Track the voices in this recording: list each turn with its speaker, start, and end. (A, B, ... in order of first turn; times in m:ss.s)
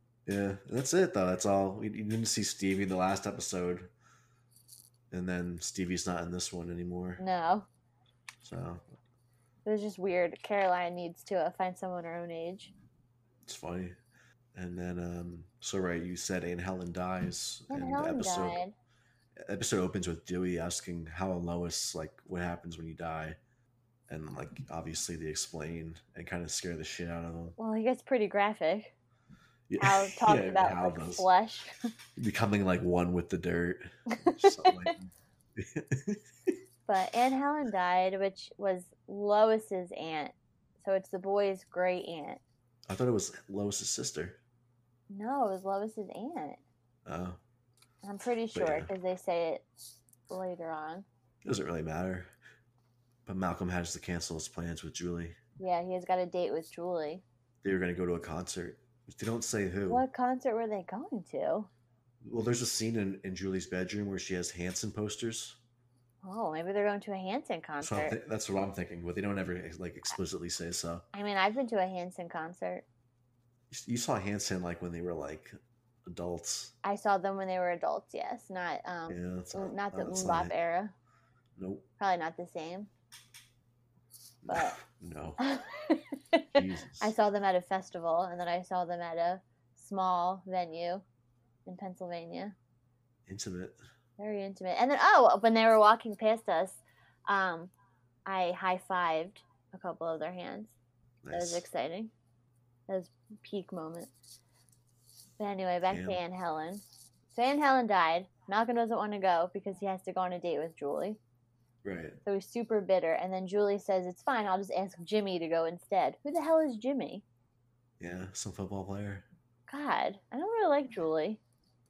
0:00.3-0:03.9 A
0:05.1-0:07.2 A
0:07.2-0:07.7 B
0:08.4-0:08.8 A
0:09.6-0:12.7 B
0:13.4-0:14.0 A
0:14.5-0:18.6 A
0:17.7-0:18.7 B
0:19.4-0:23.4 A
0:24.1-0:27.6 A
0:27.6-0:28.9 B
0:29.7-0:31.3 A
0:29.8-0:31.7 B
0:32.2-0:36.2 A
0:34.2-0:34.9 B
0:36.9-0:42.4 B
0:42.9-0:44.4 A
0:45.1-0:46.6 B
0:47.0-0:47.4 A
0:48.0-0:49.6 B
0:48.5-0:48.9 A
0:50.3-0:51.0 B
0:51.4-0:52.3 A
0:53.2-0:55.4 A
0:55.6-0:57.2 B
0:57.6-1:00.0 A
0:59.9-1:01.7 B
1:02.2-1:05.6 A
1:06.2-1:08.2 B
1:07.8-1:11.0 A
1:11.1-1:12.8 B
1:13.7-1:15.5 A
1:16.1-1:16.7 A
1:16.8-1:20.9 B
1:19.1-1:20.5 A
1:21.6-1:21.8 A
1:22.0-1:22.9 B
1:24.4-1:25.4 A
1:24.5-1:24.8 B
1:25.4-1:26.4 B
1:26.5-1:27.1 A
1:27.0-1:31.0 B
1:31.6-1:32.5 B
1:33.3-1:33.7 A
1:34.2-1:37.7 B
1:38.2-1:40.7 B
1:41.2-1:41.6 A
1:41.3-1:42.1 B
1:42.9-1:44.1 B
1:45.4-1:51.2 B
1:45.9-1:46.2 A
1:51.8-1:52.2 A
1:52.2-1:57.2 B
1:58.0-1:59.2 A
1:59.7-2:01.4 B